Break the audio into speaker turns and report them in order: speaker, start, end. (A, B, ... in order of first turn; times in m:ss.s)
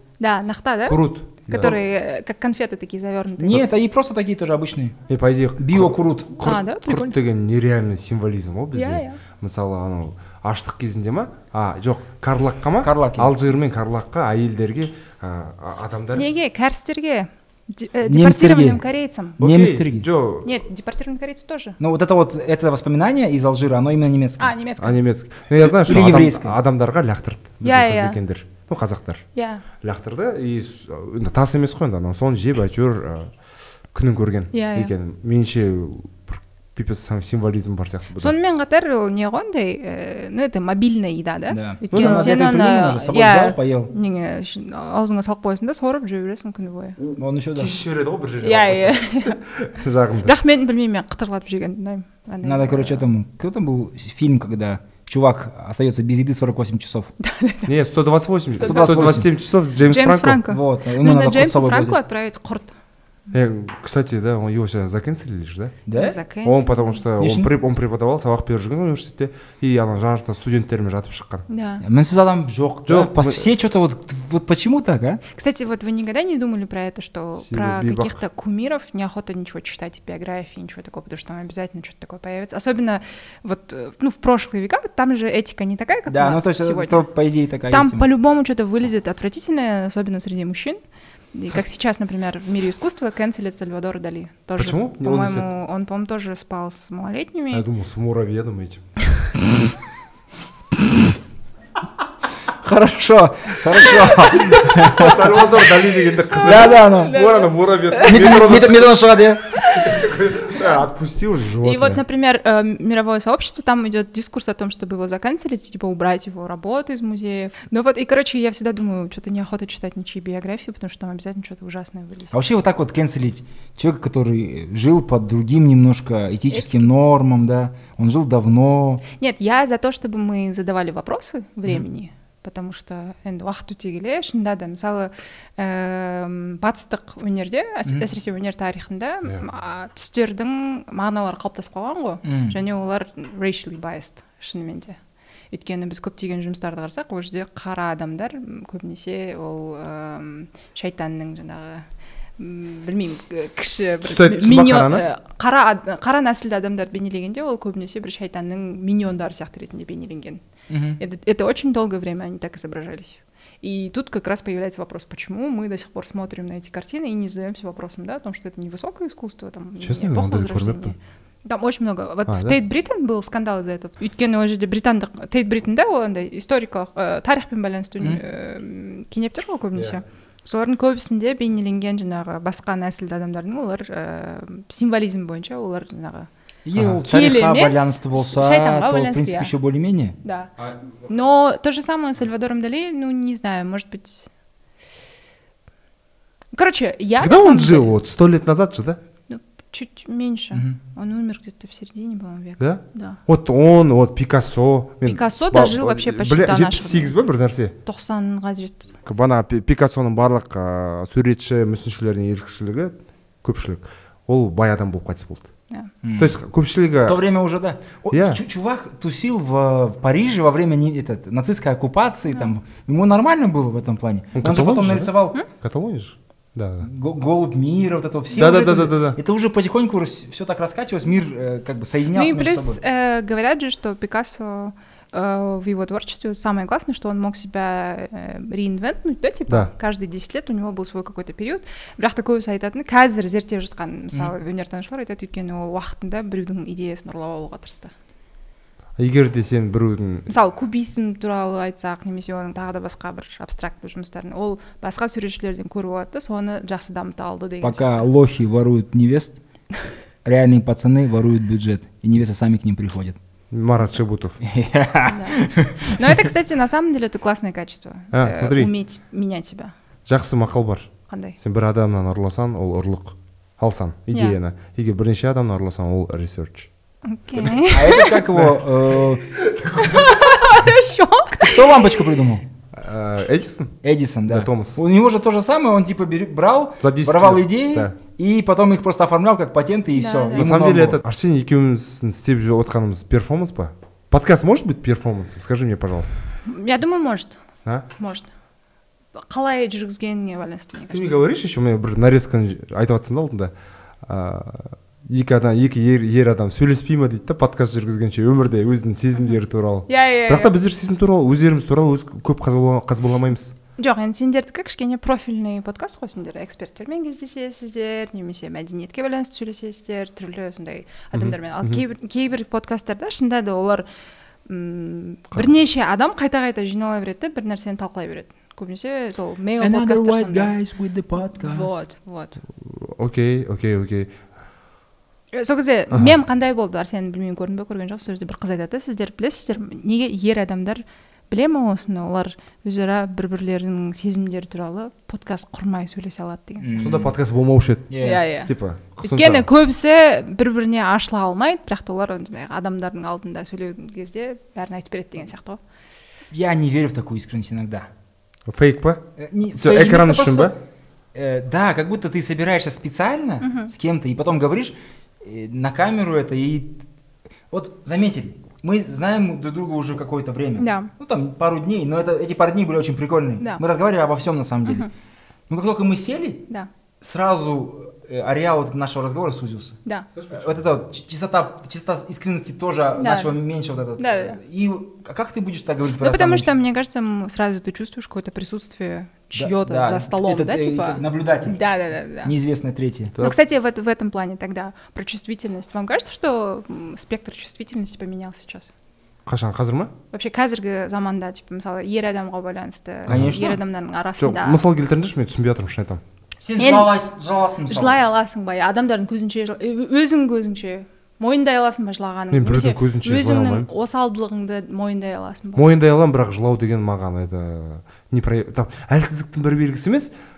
0:00.2-0:03.6 A
0:00.9-0:01.8 B
0:03.4-0:05.0 C
0:05.1-0:16.3 B
0:05.6-0:06.3 C
0:06.4-0:07.2 A
0:08.7-0:09.2 A
0:12.8-0:13.3 C
0:16.2-0:19.4 A
0:18.1-0:18.8 C
0:19.4-0:20.1 C
0:19.4-0:20.6 B
0:20.4-0:21.8 A
0:21.8-0:24.5 C
0:24.4-0:25.0 A
0:24.8-0:29.2 B
0:25.6-0:26.6 C
0:27.6-0:28.2 A
0:29.4-0:29.6 A
0:29.8-0:33.3 B
0:33.9-0:38.3 B
0:34.5-0:34.9 A
0:38.2-0:47.0 A
0:41.5-0:43.9 C
0:41.9-0:42.3 B
0:47.0-0:50.4 B
0:47.2-0:47.8 C
0:48.4-0:49.4 A
0:50.2-0:53.1 A
0:52.4-0:57.1 C
0:57.2-0:57.7 A
0:57.7-1:00.4 B
0:58.5-0:59.3 A
0:58.6-0:59.3 C
0:59.8-1:02.8 A
1:00.5-1:02.0 C
1:03.3-1:05.8 B
1:05.9-1:06.2 C
1:05.9-1:07.0 A
1:06.4-1:11.5 B
1:07.2-1:07.5 C
1:11.5-1:11.8 A
1:11.8-1:15.2 C
1:12.9-1:13.5 B
1:15.3-1:27.1 A
1:17.4-1:18.2 B
1:26.1-1:28.1 C
1:27.7-1:30.8 A
1:31.3-1:37.7 A
1:34.6-1:35.5 B
1:37.5-1:38.8 B
1:42.6-1:45.4 C
1:44.2-1:52.0 B
1:44.4-1:44.7 A
1:46.4-1:48.4 A
1:46.4-1:47.2 C
1:48.0-1:49.4 C
1:49.6-1:50.0 A
1:51.6-2:02.4 A
2:02.3-2:09.0 C
2:06.5-2:06.9 A
2:09.2-2:25.0 A
2:22.2-2:22.6 C
2:25.5-2:31.9 A
2:32.4-2:40.4 A
2:34.0-2:35.1 B
2:40.7-2:41.0 C
2:41.0-3:06.3 A
2:49.8-2:50.9 B
2:52.3-2:52.6 B
2:59.8-3:00.0 B
3:06.6-3:10.2 C
3:06.8-3:07.0 B
3:07.0-3:09.5 A
3:10.2-3:10.5 A
3:11.0-3:14.3 A
3:16.5-3:18.0 A
3:17.2-3:19.0 B
3:19.3-3:23.2 A
3:22.6-3:27.8 B
3:25.0-3:27.2 A
3:27.8-3:28.9 A
3:29.0-3:35.5 B
3:36.0-3:36.4 C
3:36.2-3:37.2 B
3:37.0-3:45.4 C
3:38.1-3:38.4 B
3:44.4-3:46.9 B
3:46.8-3:52.8 C
3:48.3-3:49.2 B
3:52.1-4:07.9 A
4:09.0-4:10.3 B
4:10.3-4:18.1 A
4:17.6-4:19.4 C
4:20.2-4:23.2 C
4:23.5-4:24.4 B
4:24.4-4:26.3 C
4:25.0-4:29.7 A
4:28.1-4:28.7 B
4:30.1-4:36.7 B
4:31.1-4:31.4 A
4:37.1-4:38.3 A
4:37.7-4:39.4 C
4:38.3-4:38.7 B
4:39.4-4:40.2 B
4:39.8-4:42.1 A
4:41.4-4:42.5 C
4:42.7-4:43.8 B
4:43.8-4:51.0 C
4:44.3-4:44.8 B
4:46.8-4:48.0 B
4:50.0-4:50.5 A
4:50.3-4:56.2 B
4:56.4-4:57.4 A
4:58.0-4:58.3 A
4:59.2-5:01.2 A
5:00.9-5:03.5 B
5:04.0-5:13.6 B
5:09.9-5:10.6 A
5:13.8-5:23.9 A
5:21.1-5:21.8 B
5:24.5-5:30.5 A
5:29.6-5:31.8 C
5:31.2-5:32.4 A
5:32.6-5:34.2 B
5:35.3-5:47.0 A
5:46.6-5:47.2 C
5:46.8-5:49.5 B
5:47.9-5:48.2 C
5:48.0-5:48.5 A
5:49.0-5:55.6 A
5:56.3-5:57.9 C
5:58.5-5:59.0 B
5:59.2-6:00.6 C
5:59.6-6:00.6 B
6:01.1-6:06.8 C
6:03.4-6:03.7 A
6:07.5-6:14.9 C
6:10.6-6:10.9 A
6:15.5-6:16.5 C
6:17.0-6:26.5 C
6:23.0-6:23.4 A
6:24.0-6:24.4 A
6:26.0-6:32.3 A
6:29.4-6:33.1 C
6:33.2-6:38.7 A
6:39.3-6:39.9 B
6:40.1-6:44.6 A
6:43.1-6:43.6 C
6:43.1-6:43.4 B
6:44.2-6:46.0 B
6:46.4-6:48.0 C
6:46.6-6:46.9 A
6:47.7-6:55.7 A
6:52.3-6:53.7 B
6:55.6-7:00.1 B